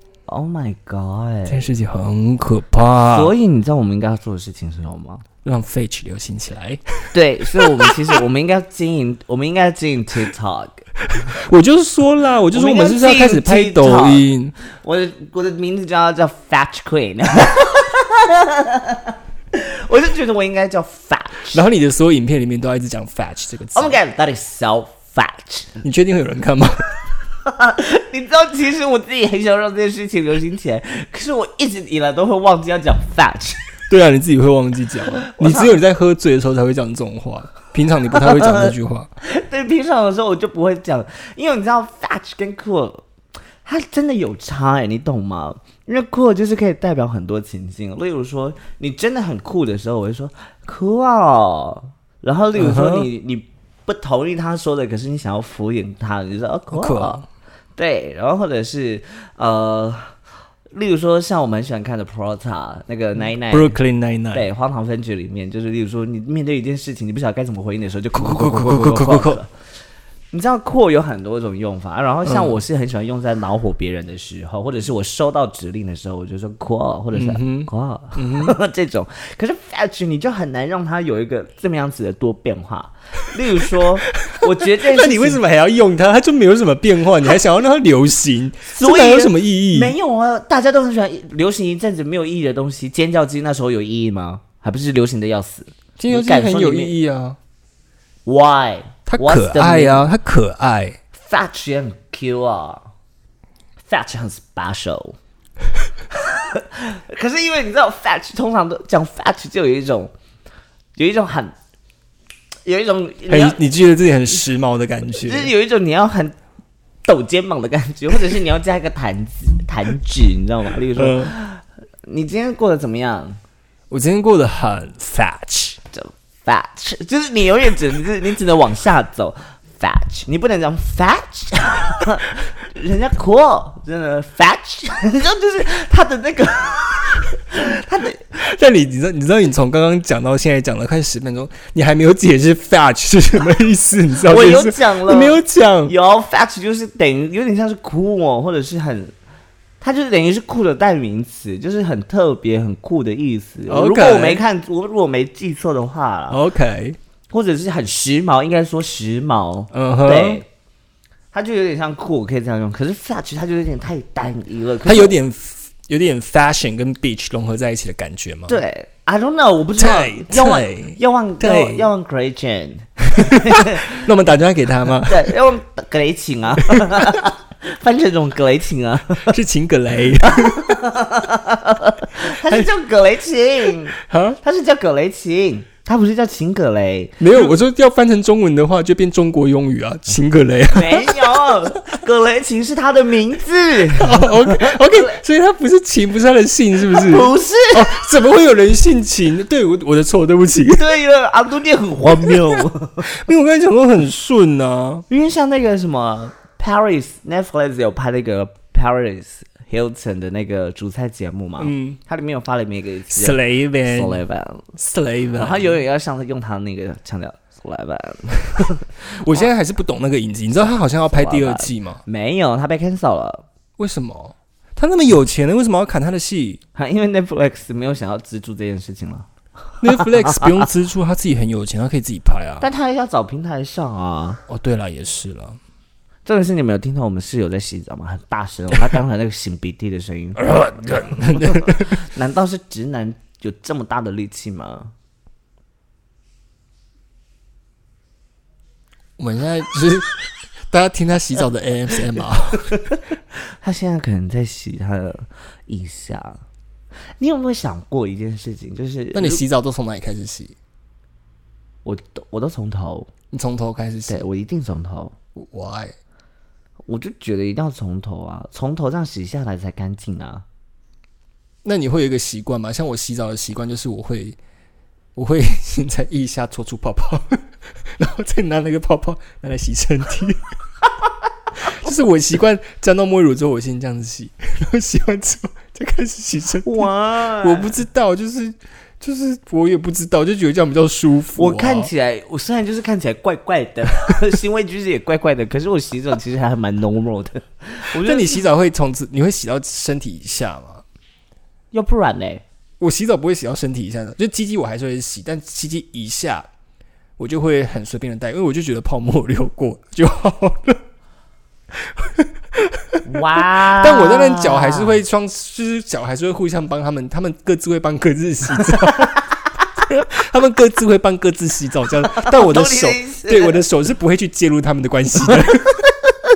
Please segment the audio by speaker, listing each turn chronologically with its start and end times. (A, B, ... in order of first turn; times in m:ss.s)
0:00.3-0:01.7 A
0:01.5-0:03.3 B
0:03.0-0:05.2 A
0:05.4-0:08.2 B
0:07.1-0:10.9 A
0:11.0-0:14.6 B
0:12.5-0:21.6 A
0:21.5-0:24.0 B
0:23.7-0:25.8 A
0:25.8-0:26.9 B
0:27.4-0:33.7 A
0:33.9-0:39.1 B
0:35.1-0:35.8 A
0:38.1-0:43.1 A
0:43.6-0:57.2 A
0:52.6-0:53.1 B
0:56.7-0:57.2 B
0:57.8-1:00.2 A
1:00.7-1:03.8 A
1:03.3-1:04.5 B
1:04.3-1:09.5 A
1:08.2-1:09.4 B
1:10.3-1:25.4 A
1:12.3-1:12.5 B
1:17.1-1:18.6 B
1:24.2-1:29.9 B
1:28.7-1:37.0 A
1:36.0-1:37.4 B
1:38.3-1:40.1 A
1:39.1-1:41.0 B
1:41.1-1:42.8 A
1:43.9-1:45.2 A
1:46.1-1:50.1 A
1:51.0-1:51.6 A
1:52.6-1:53.6 A
1:53.3-1:55.5 B
1:55.2-1:56.4 A
1:57.0-2:03.4 A
2:01.0-2:01.3 B
2:03.9-2:05.8 B
2:05.9-2:18.3 A
2:18.3-2:25.9 B
2:24.2-2:29.1 A
2:29.8-2:36.4 A
2:33.7-2:34.4 B
2:36.3-2:37.0 B
2:37.3-2:40.5 A
2:39.7-2:40.4 B
2:41.3-2:45.2 A
2:44.8-2:48.6 B
2:48.5-2:54.0 A
2:49.8-2:51.9 B
2:53.2-2:55.3 B
2:55.1-2:59.4 A
2:56.7-2:57.2 B
2:59.3-3:00.8 B
3:00.2-3:07.5 A
3:04.0-3:04.4 B
3:07.2-3:11.4 B
3:10.7-3:15.2 A
3:14.0-3:20.9 B
3:16.9-3:18.0 A
3:20.7-3:23.1 A
3:22.2-3:25.0 B
3:25.1-3:34.7 A
3:31.6-3:32.0 B
3:33.1-3:34.2 B
3:34.8-3:35.8 B
3:35.4-3:39.4 A
3:39.1-3:42.0 B
3:41.1-3:43.4 A
3:43.8-3:46.6 B
3:46.8-3:50.6 A
3:49.8-3:52.7 B
3:52.6-3:54.4 A
3:54.5-3:55.6 B
3:56.3-4:04.9 A
4:00.4-4:02.0 B
4:09.2-4:12.9 B
4:13.4-4:16.4 A
4:17.2-4:19.4 A
4:19.1-4:20.6 B
4:21.8-4:23.1 A
4:23.3-4:24.2 B
4:24.1-4:25.2 A
4:25.4-4:26.0 B
4:26.9-4:30.4 A
4:31.6-4:34.4 B
4:35.2-4:40.4 B
4:41.6-4:46.9 B
4:46.6-4:47.8 A
4:47.4-4:51.9 B
4:51.4-4:58.4 A
4:58.0-5:00.8 B
5:01.7-5:02.4 A
5:02.8-5:06.5 B
5:07.2-5:10.8 B
5:11.7-5:26.0 B
5:13.0-5:15.0 A
5:22.0-5:23.6 A